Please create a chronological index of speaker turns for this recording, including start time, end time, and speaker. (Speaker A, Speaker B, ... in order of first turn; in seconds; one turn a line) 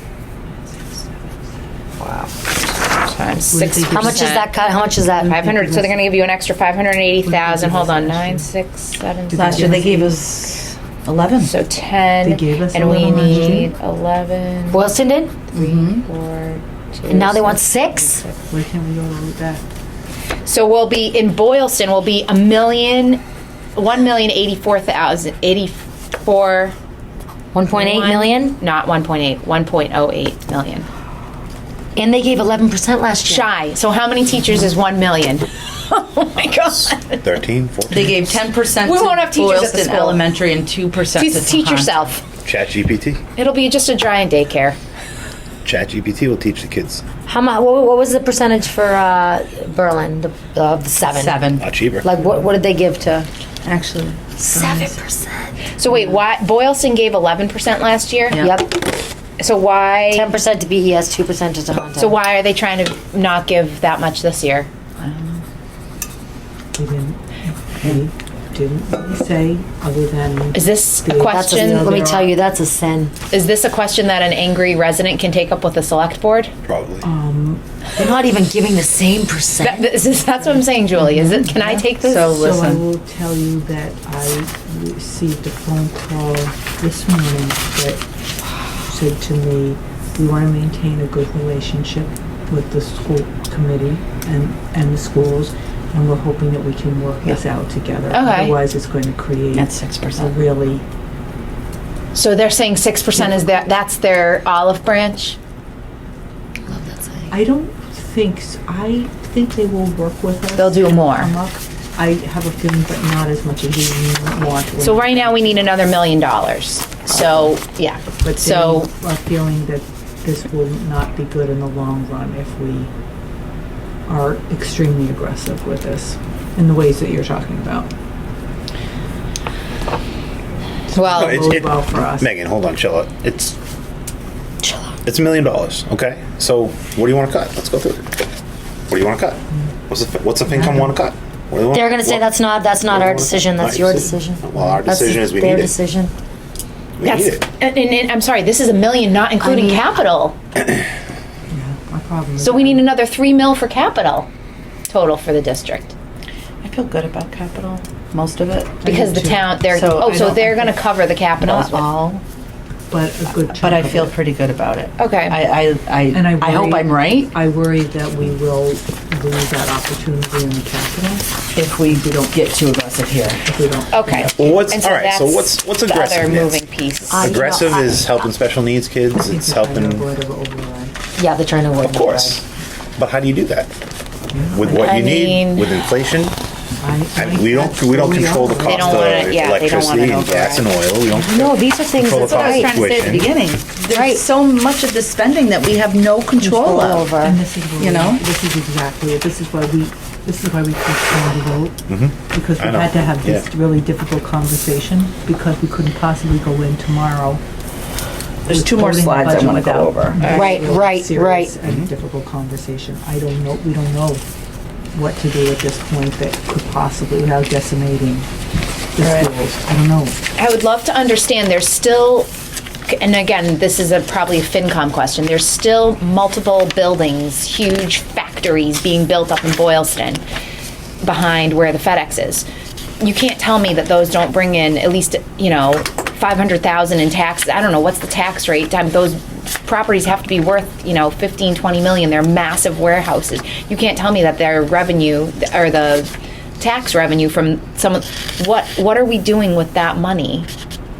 Speaker A: 2.0-2.3
Speaker B: 2.9-4.5
Speaker C: 3.5-4.4
Speaker D: 3.9-5.3
Speaker C: 5.2-6.0
Speaker B: 5.2-10.1
Speaker C: 7.2-8.5
Speaker C: 9.3-10.2
Speaker A: 9.3-11.5
Speaker B: 11.4-14.9
Speaker C: 12.2-13.7
Speaker D: 14.7-15.4
Speaker B: 15.5-18.4
Speaker A: 15.5-16.0
Speaker D: 17.1-18.2
Speaker C: 18.5-19.6
Speaker B: 20.4-23.2
Speaker B: 23.8-26.8
Speaker D: 27.5-28.6
Speaker B: 27.7-30.9
Speaker D: 31.9-33.5
Speaker B: 33.2-37.3
Speaker E: 36.5-38.4
Speaker A: 37.9-42.1
Speaker B: 38.8-40.2
Speaker B: 41.1-42.2
Speaker E: 42.4-43.2
Speaker B: 43.4-44.8
Speaker E: 45.6-47.0
Speaker D: 47.2-51.4
Speaker A: 51.1-51.7
Speaker E: 51.6-52.1
Speaker D: 52.0-53.3
Speaker A: 53.6-55.0
Speaker D: 54.4-55.2
Speaker B: 55.7-58.5
Speaker A: 58.3-58.6
Speaker D: 58.4-58.8
Speaker B: 59.4-60.3
Speaker D: 60.1-62.1
Speaker B: 62.0-64.7
Speaker A: 65.0-65.4
Speaker C: 66.7-72.4
Speaker B: 70.5-72.0
Speaker D: 71.3-73.1
Speaker B: 73.3-76.5
Speaker E: 76.6-77.1
Speaker C: 77.0-77.6
Speaker D: 77.9-79.9
Speaker B: 79.6-82.3
Speaker C: 80.1-88.0
Speaker A: 82.0-82.8
Speaker C: 88.9-100.8
Speaker B: 98.1-98.6
Speaker A: 99.5-100.4
Speaker B: 102.1-105.4
Speaker C: 107.3-115.7
Speaker B: 110.5-111.3
Speaker B: 114.8-118.9
Speaker C: 118.2-122.9
Speaker C: 124.1-127.9
Speaker C: 130.9-132.3
Speaker B: 130.9-131.5
Speaker E: 131.1-133.6
Speaker E: 135.0-138.1
Speaker E: 138.9-145.8
Speaker C: 140.5-141.0
Speaker D: 141.7-146.1
Speaker E: 147.0-147.4
Speaker B: 147.0-150.4
Speaker D: 149.4-149.8
Speaker C: 151.5-152.9
Speaker B: 152.4-154.3
Speaker B: 154.9-155.9
Speaker A: 156.6-158.8
Speaker C: 158.8-160.7
Speaker B: 158.8-161.9
Speaker A: 159.7-160.5
Speaker A: 161.4-162.2
Speaker C: 162.9-164.2
Speaker A: 163.4-167.3
Speaker B: 165.0-165.4
Speaker C: 166.1-171.3
Speaker A: 171.5-173.4
Speaker C: 171.8-172.4
Speaker C: 173.4-174.7
Speaker B: 173.9-177.4
Speaker E: 174.3-176.6
Speaker E: 177.1-180.1
Speaker D: 177.1-178.0
Speaker C: 179.2-181.1
Speaker D: 181.2-182.4
Speaker E: 181.8-182.4
Speaker E: 183.0-183.7
Speaker C: 184.3-184.7
Speaker E: 184.5-186.4
Speaker B: 184.6-185.8
Speaker C: 186.8-189.2
Speaker E: 187.1-193.3
Speaker B: 188.6-190.7
Speaker D: 191.2-192.7
Speaker A: 192.2-197.1
Speaker D: 193.9-194.2
Speaker D: 196.6-197.4
Speaker C: 197.1-207.4
Speaker A: 197.8-198.2
Speaker E: 201.9-203.4
Speaker A: 208.4-210.4
Speaker C: 208.5-214.2
Speaker D: 210.2-211.5
Speaker C: 214.9-218.3
Speaker C: 218.9-220.2
Speaker A: 219.0-219.3
Speaker B: 220.3-222.3
Speaker B: 222.8-230.2
Speaker B: 231.0-232.5
Speaker B: 233.0-250.5